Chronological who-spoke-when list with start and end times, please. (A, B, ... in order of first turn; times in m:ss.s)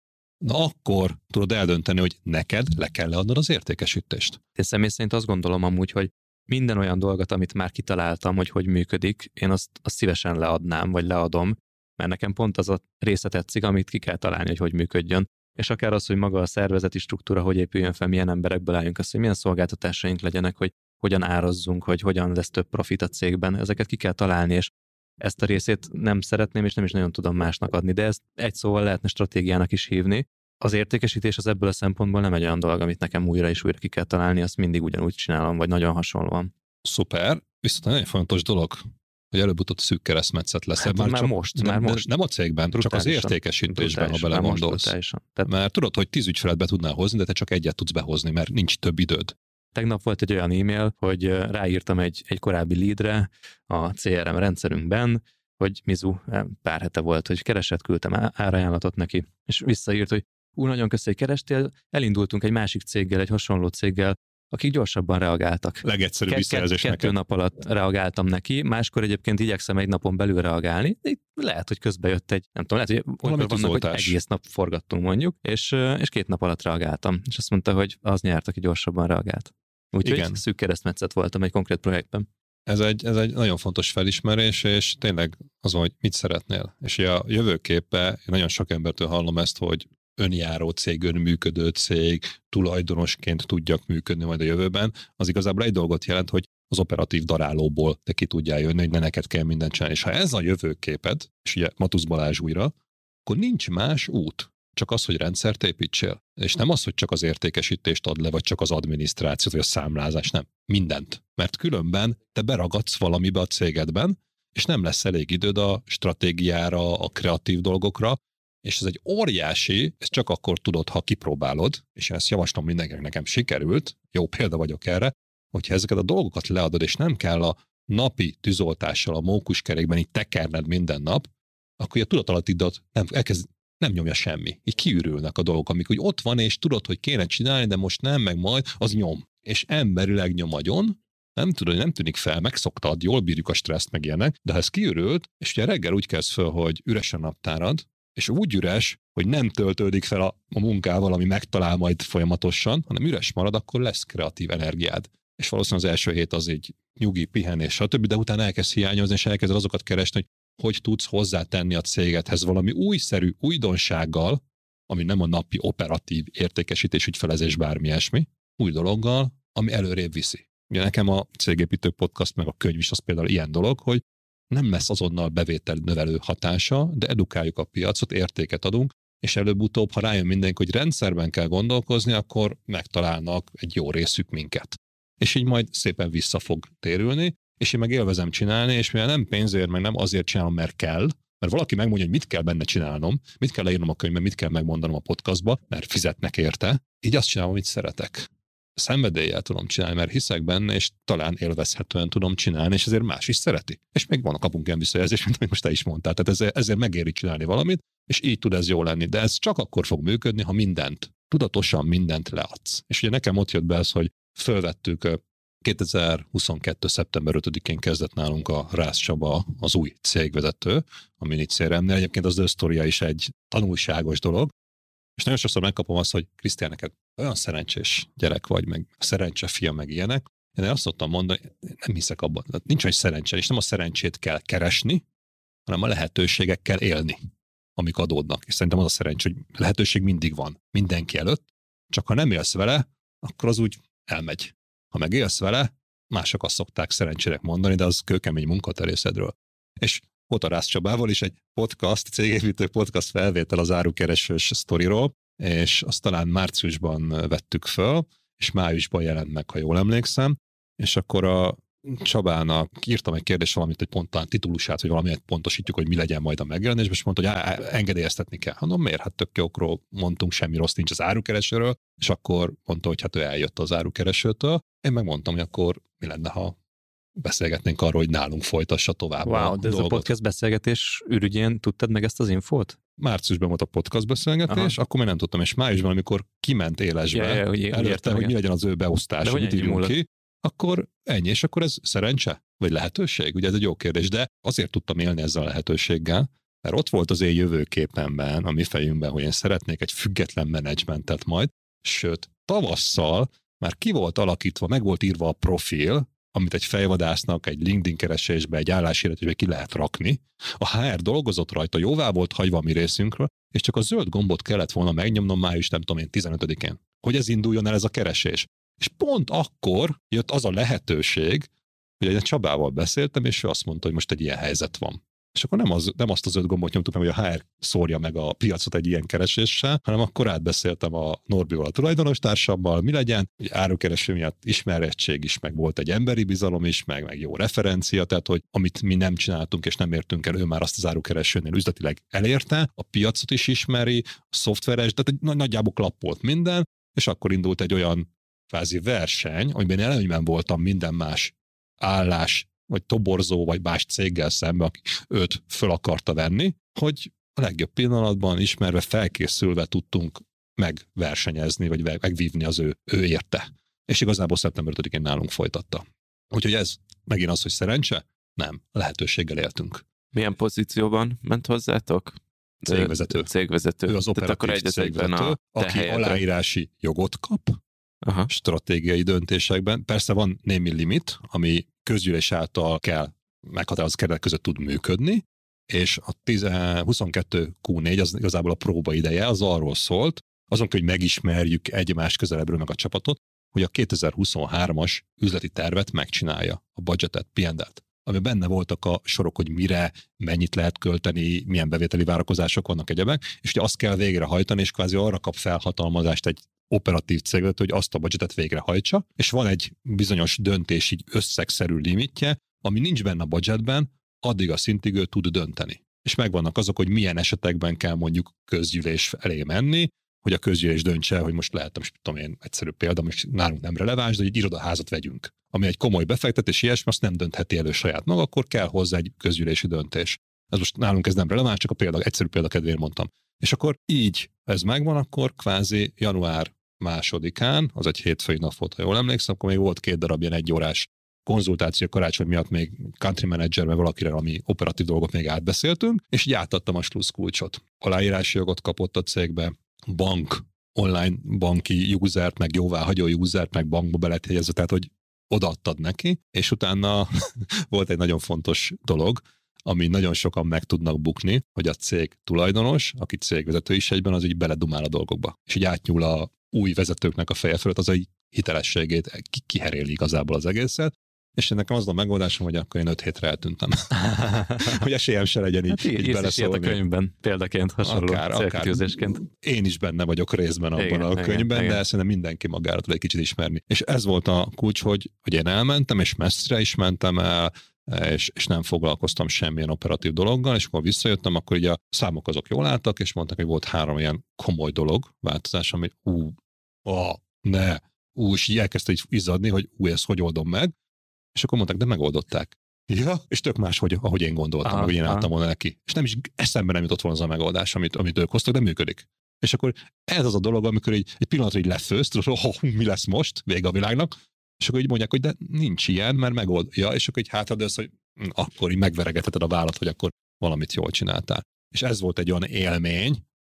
0:00.4-0:04.4 A
0:04.6-0:24.7 B
0:25.2-0:36.5 B
0:36.8-0:44.9 A
0:40.8-0:42.1 B
0:42.7-0:45.5 B
0:45.4-0:49.4 A
0:49.8-1:22.3 B
1:05.8-1:07.1 A
1:13.2-1:14.2 A
1:20.0-1:20.4 A
1:22.7-1:42.7 A
1:43.3-2:11.3 A
2:11.8-3:44.5 A
3:45.2-3:55.0 A
3:55.7-3:57.2 A
3:57.8-4:36.6 A
4:37.2-4:40.1 A
4:39.3-4:42.8 B
4:43.0-5:21.5 A
4:44.5-4:44.8 B
4:47.1-4:48.4 B
4:49.2-4:50.0 B
5:22.0-6:09.8 A
6:10.1-6:16.2 C
6:12.6-6:13.3 A
6:13.9-6:17.6 A
6:18.0-6:18.3 C
6:18.3-7:56.8 A
7:54.0-7:54.9 B
7:55.7-7:59.2 B
7:57.8-8:20.7 A
8:00.8-8:01.8 B
8:21.4-8:43.2 A
8:24.6-8:25.3 B